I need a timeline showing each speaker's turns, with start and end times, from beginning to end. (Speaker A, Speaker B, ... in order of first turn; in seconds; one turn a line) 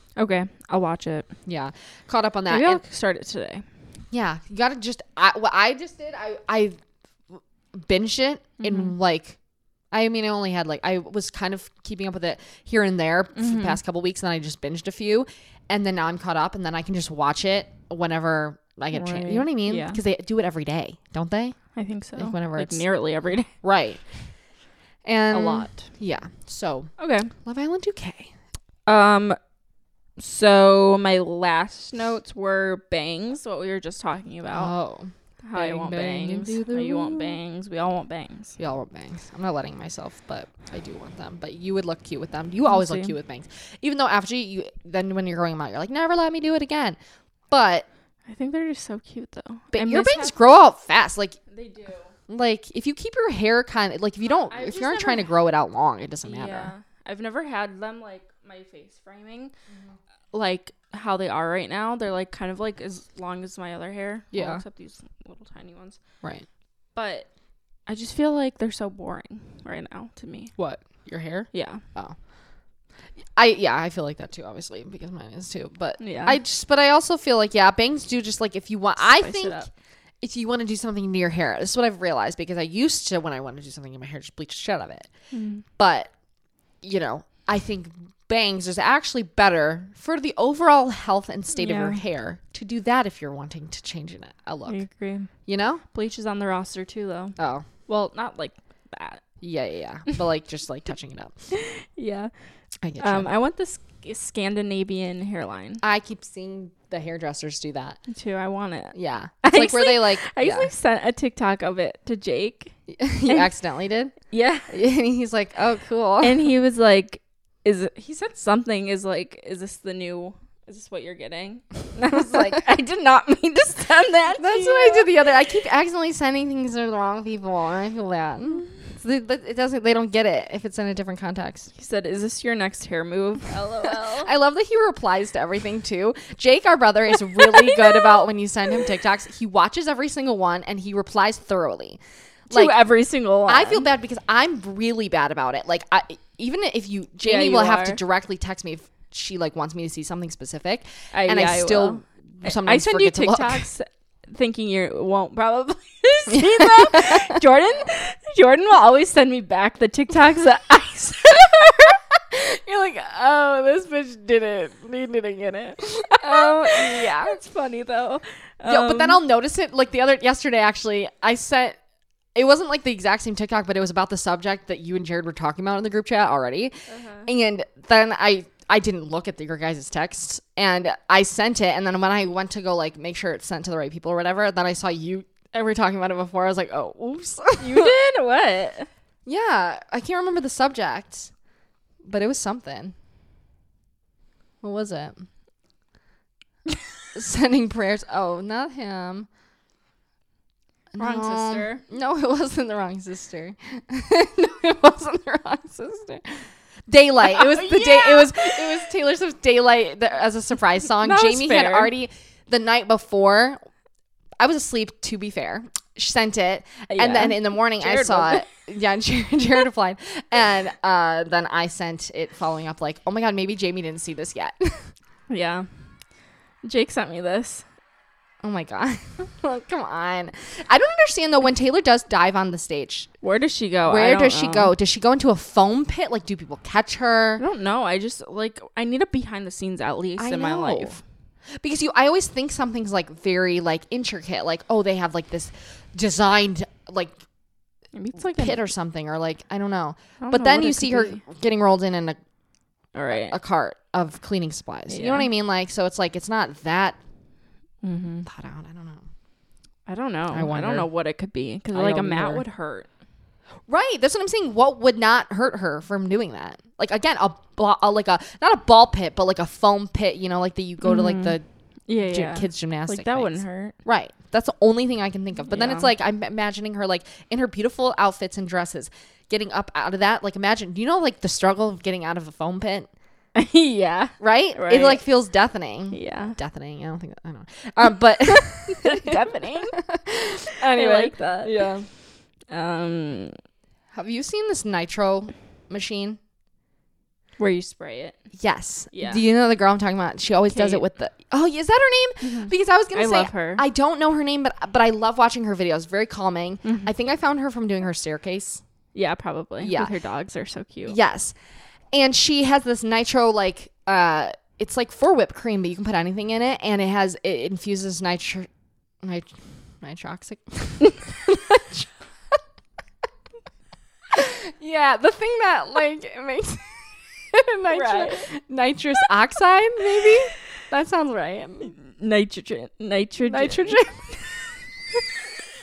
Speaker A: 0.2-1.3
Speaker B: 1.5-2.8
Speaker A: 2.5-3.6
Speaker B: 4.1-6.8
Speaker B: 7.3-9.4
Speaker A: 8.6-8.9
Speaker B: 9.9-21.6
Speaker A: 13.3-13.8
Speaker A: 18.9-20.0
Speaker A: 21.8-23.5
Speaker B: 22.2-22.8
Speaker B: 23.6-24.0
Speaker B: 25.1-26.9
Speaker A: 25.3-25.9
Speaker A: 27.0-27.3
Speaker B: 27.4-28.3
Speaker A: 28.9-29.4
Speaker A: 30.2-34.7
Speaker B: 34.5-37.4
Speaker A: 35.4-38.6
Speaker B: 38.6-47.0
Speaker A: 42.7-43.1
Speaker B: 47.5-47.9
Speaker A: 48.3-50.4
Speaker B: 49.7-51.4
Speaker A: 51.5-52.1
Speaker B: 52.3-56.7
Speaker A: 54.3-55.3
Speaker A: 56.2-59.5
Speaker B: 59.7-60.0
Speaker A: 60.3-66.0
Speaker B: 64.3-64.6
Speaker A: 67.0-67.3
Speaker A: 67.9-70.5
Speaker B: 70.6-72.2
Speaker A: 71.5-71.8
Speaker B: 73.4-79.7
Speaker A: 76.0-76.4
Speaker A: 79.0-79.7
Speaker B: 80.2-85.1
Speaker A: 85.3-85.6
Speaker B: 85.8-86.1
Speaker B: 86.8-94.8
Speaker A: 91.5-92.0
Speaker A: 94.7-95.3
Speaker B: 95.5-95.8
Speaker A: 95.9-97.4
Speaker B: 97.4-97.7
Speaker A: 97.9-99.2
Speaker B: 99.4-101.4
Speaker A: 101.5-102.3
Speaker B: 102.8-103.3
Speaker A: 103.0-105.8
Speaker B: 105.8-108.0
Speaker A: 108.1-112.7
Speaker B: 108.9-110.7
Speaker B: 112.9-114.2
Speaker A: 114.3-114.7
Speaker B: 114.7-116.4
Speaker A: 116.2-125.1
Speaker B: 122.1-122.6
Speaker B: 124.4-131.7
Speaker A: 131.8-134.3
Speaker B: 133.8-142.7
Speaker A: 137.3-138.2
Speaker A: 142.5-143.9
Speaker B: 143.5-153.7
Speaker A: 147.2-148.0
Speaker A: 151.1-169.2
Speaker B: 156.3-157.4
Speaker B: 166.0-167.4
Speaker B: 168.7-171.8
Speaker B: 172.3-187.9
Speaker A: 176.9-177.3
Speaker A: 187.6-188.9
Speaker B: 189.3-191.3
Speaker B: 192.1-192.9
Speaker B: 194.6-195.3
Speaker B: 197.1-199.3
Speaker B: 200.9-213.6
Speaker A: 201.0-201.8
Speaker A: 207.2-208.8
Speaker A: 211.0-211.9
Speaker B: 214.4-224.9
Speaker A: 216.9-218.5
Speaker A: 225.3-225.7
Speaker A: 226.6-227.7
Speaker B: 228.4-233.1
Speaker A: 233.2-234.7
Speaker B: 233.9-237.4
Speaker A: 237.4-241.0
Speaker B: 240.2-241.0
Speaker B: 241.6-247.2
Speaker A: 247.9-248.6
Speaker B: 248.2-252.2
Speaker A: 250.2-251.2
Speaker A: 252.9-253.4
Speaker B: 253.1-257.0
Speaker A: 254.9-255.3
Speaker A: 257.8-258.3
Speaker B: 258.2-259.1
Speaker A: 259.9-262.9
Speaker B: 260.3-260.9
Speaker B: 261.7-262.4
Speaker B: 263.7-271.4
Speaker A: 270.8-271.4
Speaker A: 271.9-273.8
Speaker B: 272.0-282.9
Speaker A: 275.5-275.9
Speaker A: 283.4-285.0
Speaker B: 284.2-291.9
Speaker A: 285.9-286.4
Speaker A: 288.3-289.8
Speaker A: 290.6-291.7
Speaker A: 292.5-293.3
Speaker B: 293.9-296.2
Speaker A: 297.4-298.2
Speaker B: 298.4-308.6
Speaker A: 298.9-299.2
Speaker A: 300.5-300.9
Speaker A: 302.2-303.6
Speaker A: 306.6-306.9
Speaker A: 308.9-311.0
Speaker B: 309.6-309.9
Speaker B: 310.9-311.4
Speaker B: 311.9-318.5
Speaker B: 319.0-319.3
Speaker B: 319.8-321.9
Speaker B: 324.1-326.8
Speaker B: 327.3-331.8
Speaker A: 327.7-328.3
Speaker A: 331.7-334.3
Speaker B: 333.3-334.0